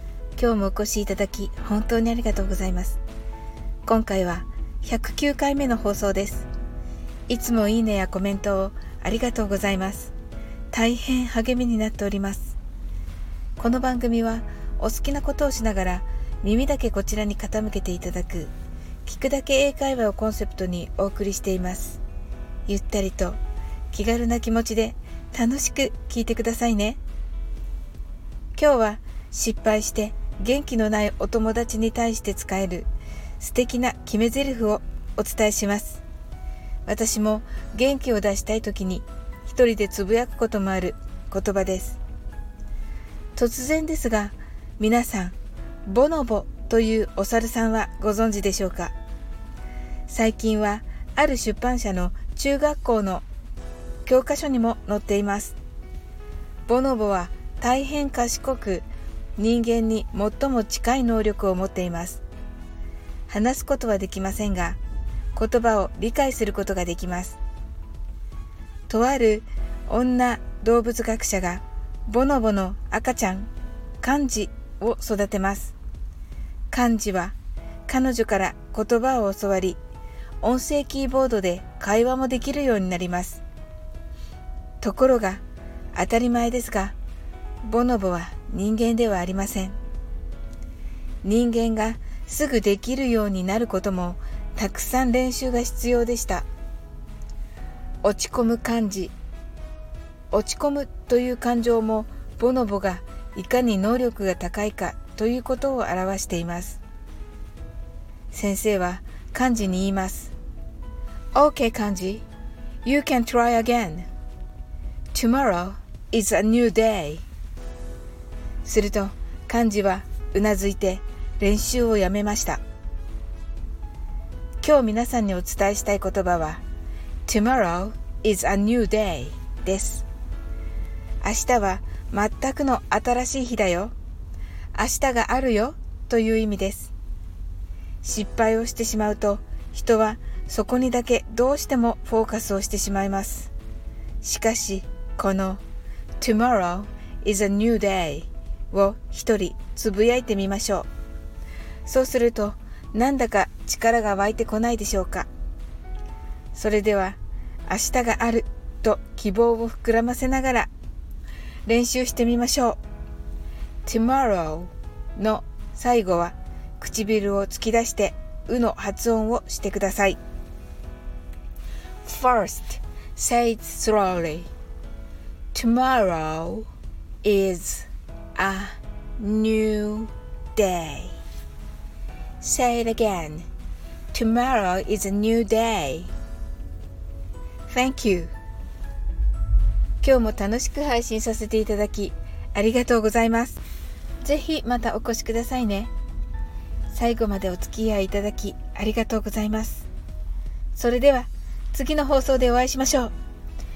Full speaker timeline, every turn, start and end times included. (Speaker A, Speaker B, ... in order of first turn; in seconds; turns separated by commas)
Speaker A: 0.3-3.0, Speaker A: 3.8-6.5, Speaker A: 7.3-10.1, Speaker A: 10.7-12.6, Speaker A: 13.6-18.5, Speaker A: 19.0-22.0, Speaker A: 22.7-23.4, Speaker A: 23.9-27.0, Speaker A: 28.5-32.9, Speaker A: 33.4-36.0, Speaker A: 36.9-42.0, Speaker A: 43.3-48.9, Speaker A: 50.1-53.2, Speaker A: 54.0-55.5, Speaker A: 56.6-58.9, Speaker A: 59.4-62.2, Speaker A: 63.3-64.8, Speaker A: 65.3-67.4, Speaker A: 68.9-75.7, Speaker A: 76.7-77.3, Speaker A: 77.9-79.8, Speaker A: 80.4-83.4, Speaker A: 84.8-85.4, Speaker A: 85.9-87.0, Speaker A: 87.6-89.8, Speaker A: 91.2-96.5, Speaker A: 98.0-99.1, Speaker A: 100.3-106.8, Speaker A: 108.3-110.3, Speaker A: 111.3-112.2, Speaker A: 112.8-114.1, Speaker A: 115.1-117.2, Speaker A: 118.6-122.6, Speaker A: 124.6-126.6, Speaker A: 127.2-130.1, Speaker A: 131.2-133.9, Speaker A: 134.7-136.9, Speaker A: 138.0-143.5, Speaker A: 144.2-145.6, Speaker A: 146.2-150.9, Speaker A: 151.8-155.3, Speaker A: 156.5-160.7, Speaker A: 161.7-162.8, Speaker A: 163.8-170.2, Speaker A: 172.0-174.5, Speaker A: 175.5-176.7, Speaker A: 177.2-181.2, Speaker A: 182.4-183.4, Speaker A: 184.1-186.1, Speaker A: 187.7-188.3, Speaker A: 190.0-193.6, Speaker A: 194.2-195.9, Speaker A: 196.9-199.9, Speaker A: 200.7-203.1